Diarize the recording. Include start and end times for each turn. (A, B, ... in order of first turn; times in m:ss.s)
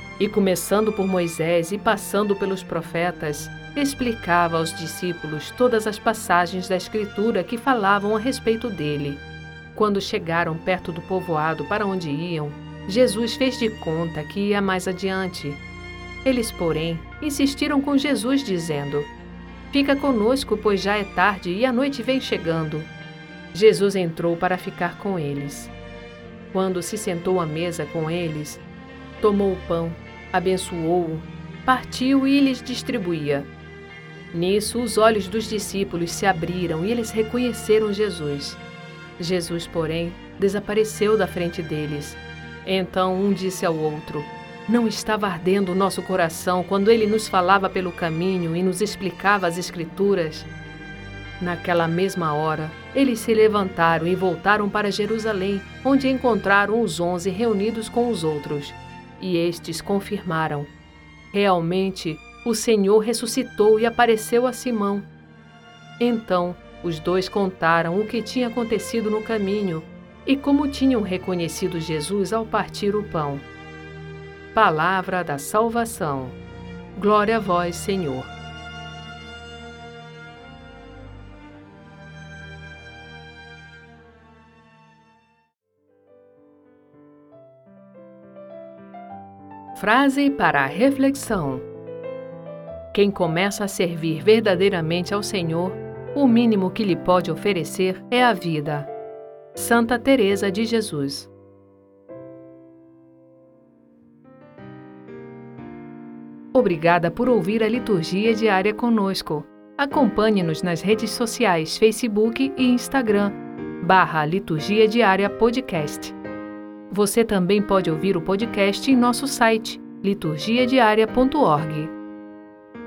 0:00.2-0:09.2 A
0:09.7-0:15.6 A
0:16.2-0:19.1 A
0:19.7-0:22.9 A
0:23.5-0:25.7 A
0:26.5-0:28.6 A
0:29.2-0:33.5 A
0:34.3-0:38.6 A
0:39.2-0:50.5 A
0:51.4-1:00.7 A
1:01.3-1:05.1 A
1:06.0-1:13.5 A
1:14.5-1:16.4 A
1:17.0-1:18.3 A
1:29.8-1:31.7 A
1:32.9-1:38.9 A
1:39.6-1:41.3 A
1:46.5-1:56.2 A
1:56.9-2:01.9 A